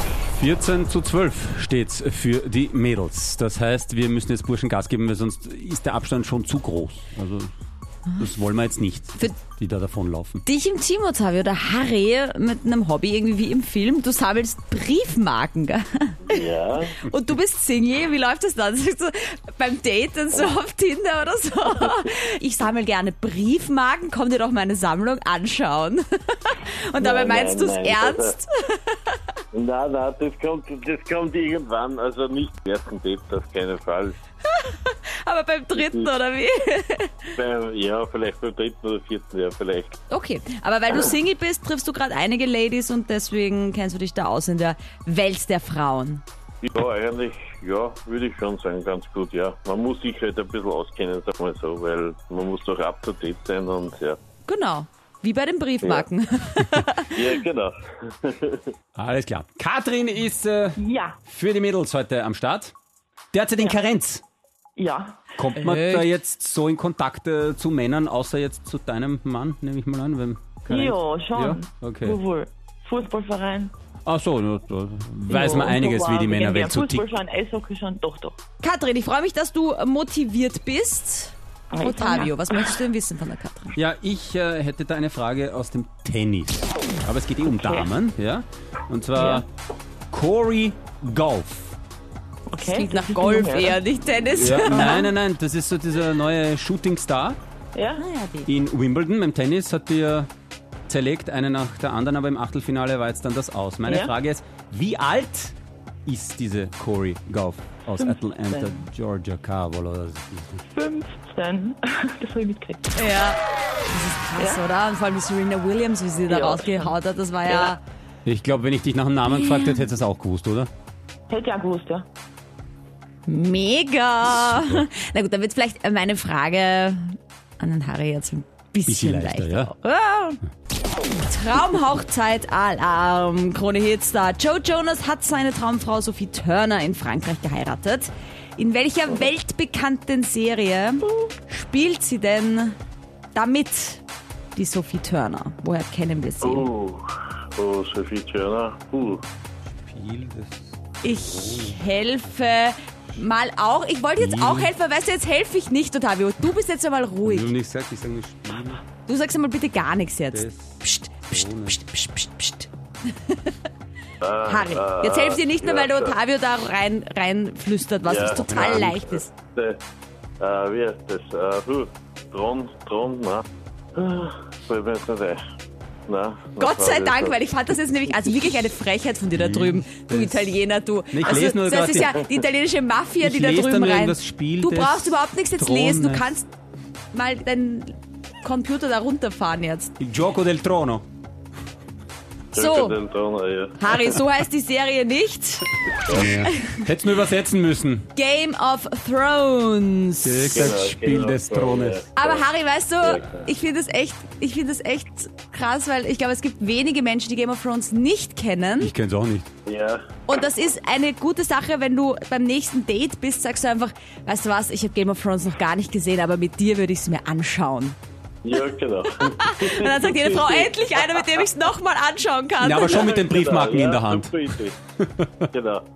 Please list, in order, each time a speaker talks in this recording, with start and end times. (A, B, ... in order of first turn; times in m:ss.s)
0:00.4-0:07.5 A
0:08.2-0:10.4 A
0:10.4-0:29.2 B
0:16.3-0:16.9 C
0:27.0-0:28.3 C
0:29.5-0:34.2 C
0:34.4-0:37.3 B
0:37.4-0:39.9 C
0:40.1-0:46.2 B
0:46.6-0:54.2 C
0:54.5-0:57.3 B
0:57.4-0:58.6 C
0:59.0-1:02.7 A
1:00.8-1:01.2 D
1:03.3-1:04.2 A
1:04.8-1:05.2 D
1:05.4-1:12.2 A
1:05.6-1:06.1 B
1:10.7-1:13.7 D
1:14.1-1:17.1 A
1:15.3-1:18.4 D
1:18.6-1:23.8 B
1:21.7-1:22.8 D
1:23.8-1:29.4 A
1:27.4-1:27.9 D
1:29.1-1:29.4 D
1:30.1-1:31.8 A
1:32.5-1:33.8 D
1:32.6-1:35.1 B
1:34.4-1:37.4 A
1:34.6-1:35.1 D
1:37.8-1:38.0 D
1:38.0-1:38.5 B
1:38.4-1:40.3 A
1:40.9-1:50.6 A
1:43.8-1:44.1 D
1:48.0-1:48.9 D
1:50.7-1:52.8 D
1:53.0-1:57.8 B
1:54.4-1:54.6 D
1:56.3-1:57.0 D
1:58.2-2:00.7 A
1:59.3-1:59.8 B
2:01.3-2:02.1 D
2:03.3-2:10.4 B
2:04.3-2:04.9 A
2:08.9-2:09.7 A
2:11.1-2:22.8 B
2:23.3-2:24.0 B
2:24.5-2:26.7 B
2:26.4-2:27.0 C
2:27.6-2:29.2 C
2:29.7-2:31.8 A
2:31.0-2:37.5 B
2:34.2-2:34.7 A
2:37.2-2:38.8 A
2:38.9-2:43.5 B
2:40.3-2:41.8 A
2:44.2-2:46.1 C
2:44.4-2:49.3 B
2:48.2-2:48.6 D
2:48.3-2:49.2 A
2:50.4-2:53.4 C
2:54.0-2:55.4 C
2:56.1-2:57.1 C
2:56.6-3:06.5 B
2:59.3-3:00.6 A
3:01.1-3:02.2 A
3:03.2-3:06.3 A
3:07.1-3:09.9 B
3:10.0-3:11.0 A
3:12.5-3:13.0 B
3:12.6-3:13.8 C
3:13.8-3:16.8 B
3:16.1-3:18.1 A
3:18.1-3:20.7 B
3:20.2-3:22.1 A
3:20.5-3:22.4 C
3:20.9-3:21.4 D
3:22.2-3:28.9 B
3:28.8-3:29.5 A
3:29.7-3:30.0 C
3:30.3-3:38.0 B
3:38.5-3:39.4 C
3:39.2-3:43.1 B
3:42.6-3:45.5 A
3:43.4-3:44.7 C
3:43.8-3:44.6 D
3:45.5-3:45.8 C